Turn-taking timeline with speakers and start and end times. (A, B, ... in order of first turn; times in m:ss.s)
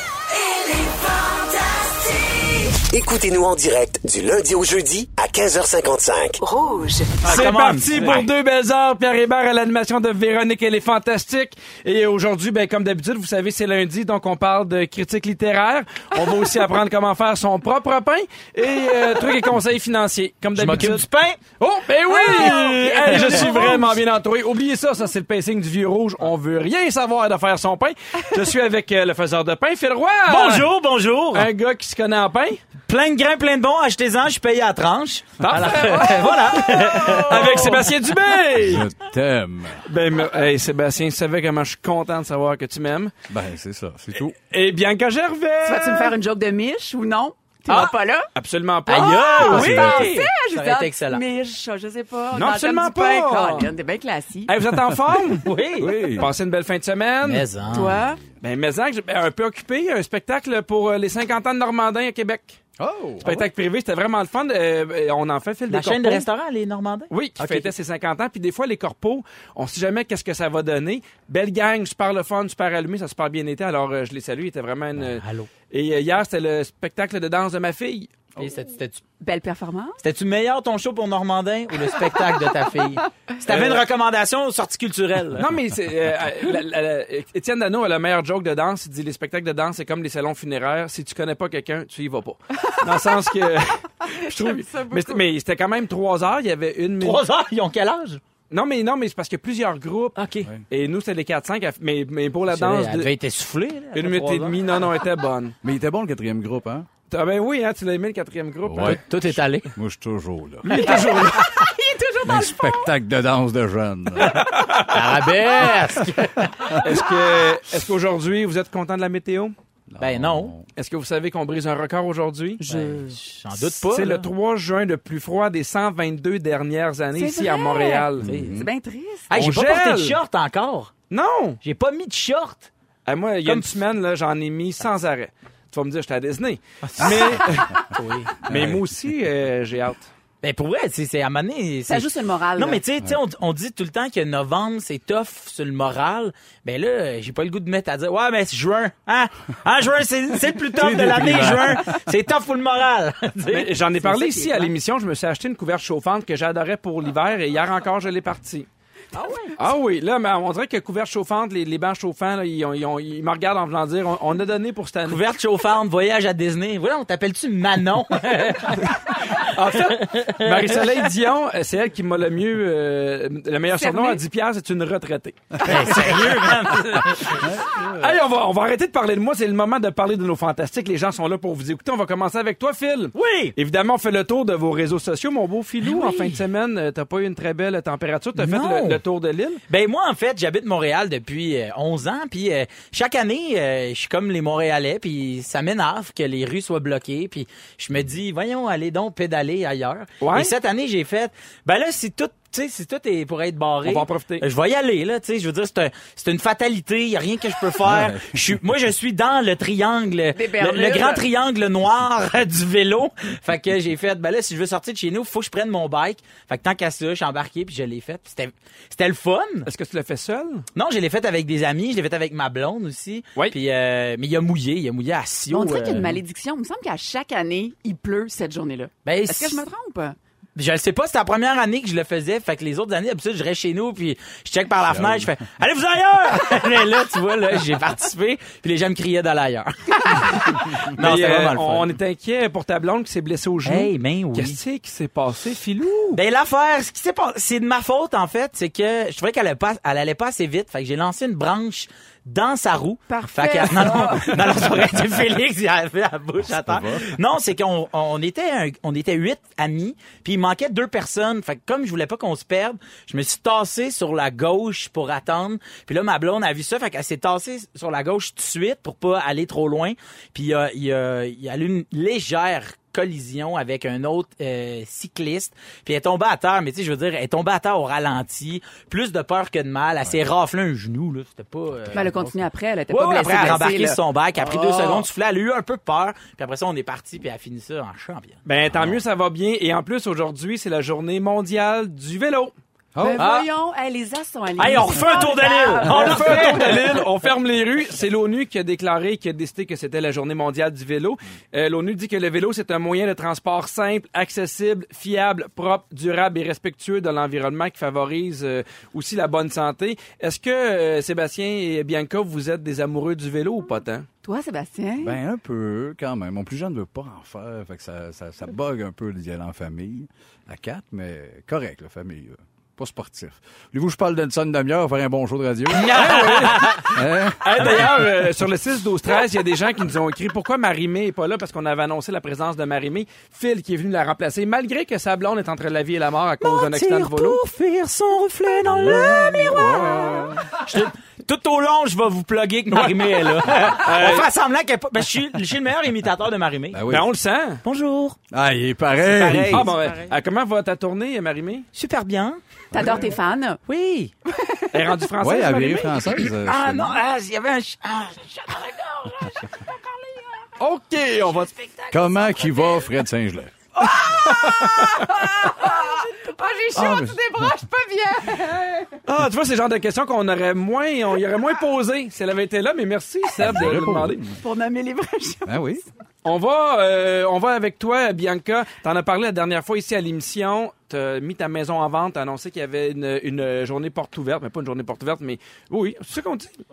0:00.4-0:07.1 A
0:07.2-0:08.3 B
0:07.2-0:21.0 C
0:20.6-0:21.4 B
0:21.6-0:30.7 C
0:22.1-0:23.9 D
0:23.1-0:23.4 B
0:30.3-0:31.5 B
0:31.3-0:32.6 C
0:32.9-0:37.9 B
0:35.4-0:38.9 C
0:38.5-0:39.9 E
0:39.8-0:43.1 C
0:43.3-0:44.4 E
0:44.4-0:46.2 C
0:45.7-0:48.3 D
0:47.7-0:47.9 B
0:48.4-0:50.0 C
0:48.9-0:51.2 B
0:48.9-0:54.5 D
0:49.4-0:50.2 E
0:52.3-0:53.7 C
0:54.5-0:55.5 C
0:55.4-0:56.1 B
0:55.8-0:56.3 E
0:56.0-0:57.5 C
0:57.2-0:58.0 B
0:57.6-0:58.3 E
0:57.7-0:58.2 D
0:58.4-1:02.6 C
1:02.8-1:03.4 E
1:03.2-1:06.3 C
1:05.7-1:07.7 B
1:07.1-1:18.3 C
1:15.0-1:15.5 B
1:18.4-1:19.0 B
1:19.2-1:20.0 D
1:20.0-1:25.5 B
1:23.5-1:23.8 C
1:25.4-1:37.2 C
1:34.0-1:35.2 D
1:37.0-1:38.2 B
1:38.5-1:40.2 C
1:40.2-1:40.5 B
1:40.7-1:43.1 C
1:42.5-1:44.6 B
1:43.9-1:45.6 C
1:45.6-1:46.9 E
1:47.1-1:49.1 C
1:48.6-1:50.8 E
1:48.8-1:49.7 B
1:50.6-1:51.6 C
1:50.7-1:52.9 D
1:52.2-1:54.6 E
1:54.2-1:55.0 C
1:54.8-1:56.8 B
1:56.8-1:59.6 C
1:56.9-1:57.6 D
1:59.9-2:00.7 E
2:00.0-2:00.5 B
2:00.8-2:02.6 C
2:02.6-2:03.2 D
2:02.6-2:04.3 B
2:03.5-2:08.3 C
2:07.2-2:09.4 D
2:08.2-2:08.7 E
2:08.2-2:08.6 B
2:09.3-2:10.9 B
2:09.3-2:10.2 C
2:11.1-2:11.6 C
2:11.6-2:12.7 B
2:13.1-2:17.8 C
2:16.8-2:18.4 B
2:18.4-2:20.1 C
2:18.5-2:18.9 E
2:20.4-2:33.8 B
2:21.9-2:22.8 D
2:30.7-2:31.9 E
2:33.5-2:38.7 C
2:34.0-2:34.7 D
2:39.1-2:39.6 B
2:39.6-2:45.3 C
2:45.0-2:51.1 B
2:49.3-3:09.6 C
2:53.8-2:54.2 D
2:55.6-2:57.4 B
2:57.4-2:58.2 E
3:03.1-3:03.6 B
3:05.8-3:06.4 B
3:08.4-3:09.0 B
3:09.7-3:39.7 B
3:20.2-3:20.5 C
3:23.8-3:24.4 C
3:27.8-3:28.6 E
3:30.3-3:31.2 D
3:39.7-3:40.7 C
3:40.8-3:46.2 B
3:45.5-3:50.2 D
3:49.0-3:49.6 B
3:50.6-4:01.9 B
3:54.9-3:55.3 E
4:00.6-4:01.2 E
4:00.9-4:06.2 C
4:03.7-4:04.6 B
4:06.1-4:48.4 B
4:13.1-4:15.0 D
4:16.4-4:17.0 E
4:41.9-4:45.1 D
4:48.4-4:52.5 C
4:48.7-4:49.0 E
4:53.0-4:53.2 E
4:53.0-4:56.5 D
4:53.2-4:53.4 B
4:53.2-4:53.4 C
4:54.6-4:57.0 B
4:54.6-5:14.1 C
5:14.2-5:15.2 D
5:15.0-5:28.0 E
5:25.7-5:27.0 B
5:25.9-5:37.4 C
5:27.5-5:28.1 B
5:36.4-5:46.8 B
5:38.6-5:40.6 E
5:42.7-5:44.3 C
5:46.7-5:47.1 E
5:46.9-5:47.6 C
5:47.6-5:48.2 B
5:48.3-5:49.7 E
5:49.1-5:50.1 B
5:49.5-5:51.7 C
5:51.7-5:52.4 B
5:52.7-5:53.6 D
5:53.7-5:54.1 B
5:54.3-5:55.0 D
5:54.7-5:56.1 C
5:55.2-5:57.0 E
5:56.4-6:00.5 B
6:00.6-6:01.5 C
6:01.6-6:02.8 B
6:01.9-6:03.6 E
6:03.8-6:09.0 D
6:04.2-6:05.1 C
6:06.7-6:07.6 E
6:09.1-6:14.2 C
6:13.4-6:14.4 E
6:14.4-6:15.6 D
6:15.4-6:15.8 E
6:16.2-6:26.5 C